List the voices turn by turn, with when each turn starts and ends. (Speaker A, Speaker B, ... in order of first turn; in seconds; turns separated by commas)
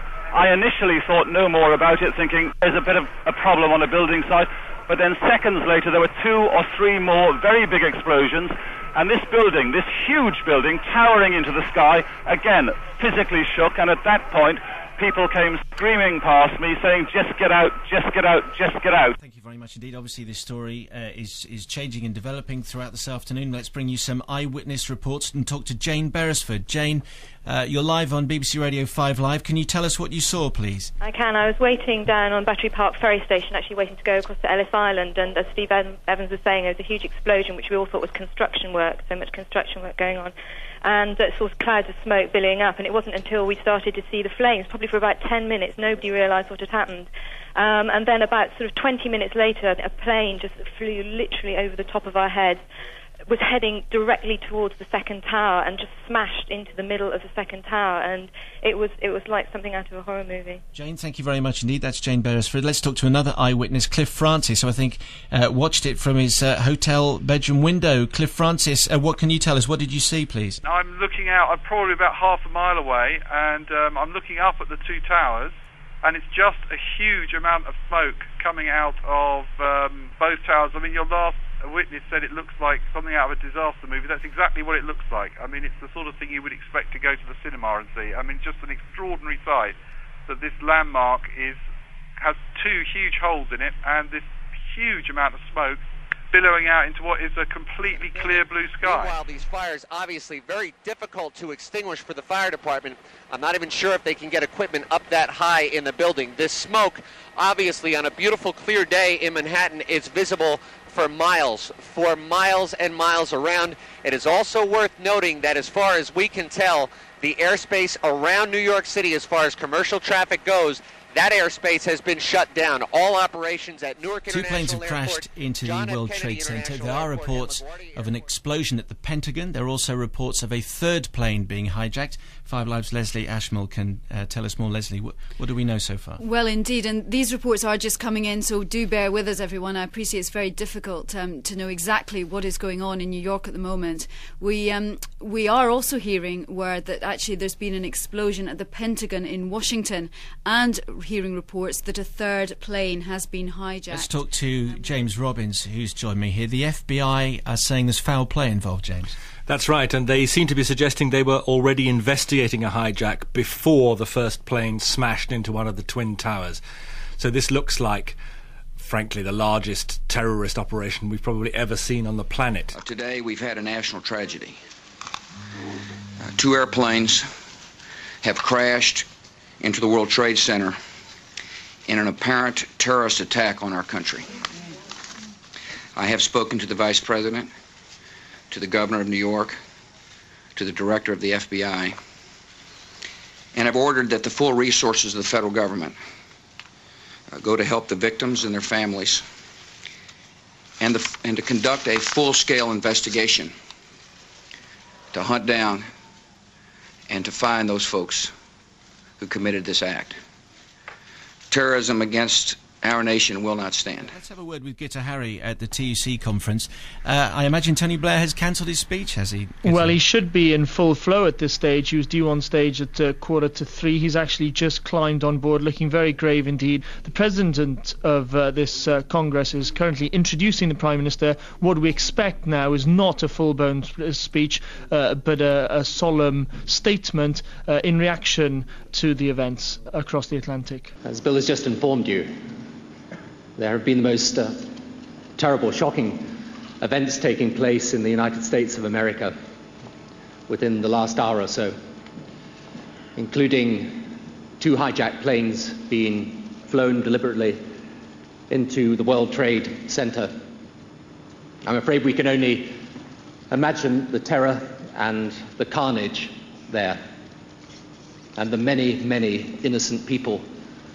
Speaker A: 0.3-19.1, Speaker B: 19.2-30.9, Speaker C: 31.0-52.6, Speaker C: 53.3-60.6, Speaker B: 60.8-70.6, Speaker D: 70.6-91.6, Speaker D: 92.2-95.8, Speaker D: 96.3-99.3, Speaker E: 97.9-128.3, Speaker B: 124.3-136.2, Speaker F: 136.2-154.2, Speaker B: 153.9-159.2, Speaker G: 159.5-166.6, Speaker G: 167.2-168.2, Speaker G: 168.8-172.8, Speaker H: 172.7-174.6, Speaker H: 176.2-177.3, Speaker H: 178.2-179.1, Speaker H: 179.6-180.8, Speaker H: 181.9-184.3, Speaker H: 186.0-187.5, Speaker H: 188.5-189.6, Speaker H: 190.6-192.0, Speaker H: 193.5-196.0, Speaker H: 197.3-199.2, Speaker H: 200.8-203.5, Speaker H: 205.1-205.9, Speaker H: 207.1-208.3, Speaker H: 209.2-210.2, Speaker H: 211.5-214.1, Speaker B: 214.0-220.0, Speaker I: 219.6-240.9, Speaker J: 241.1-242.3, Speaker J: 243.6-244.8, Speaker J: 245.4-249.4, Speaker J: 250.5-251.8, Speaker J: 253.2-257.6, Speaker J: 258.5-260.4, Speaker J: 261.7-262.9, Speaker J: 263.5-267.0, Speaker J: 268.4-270.5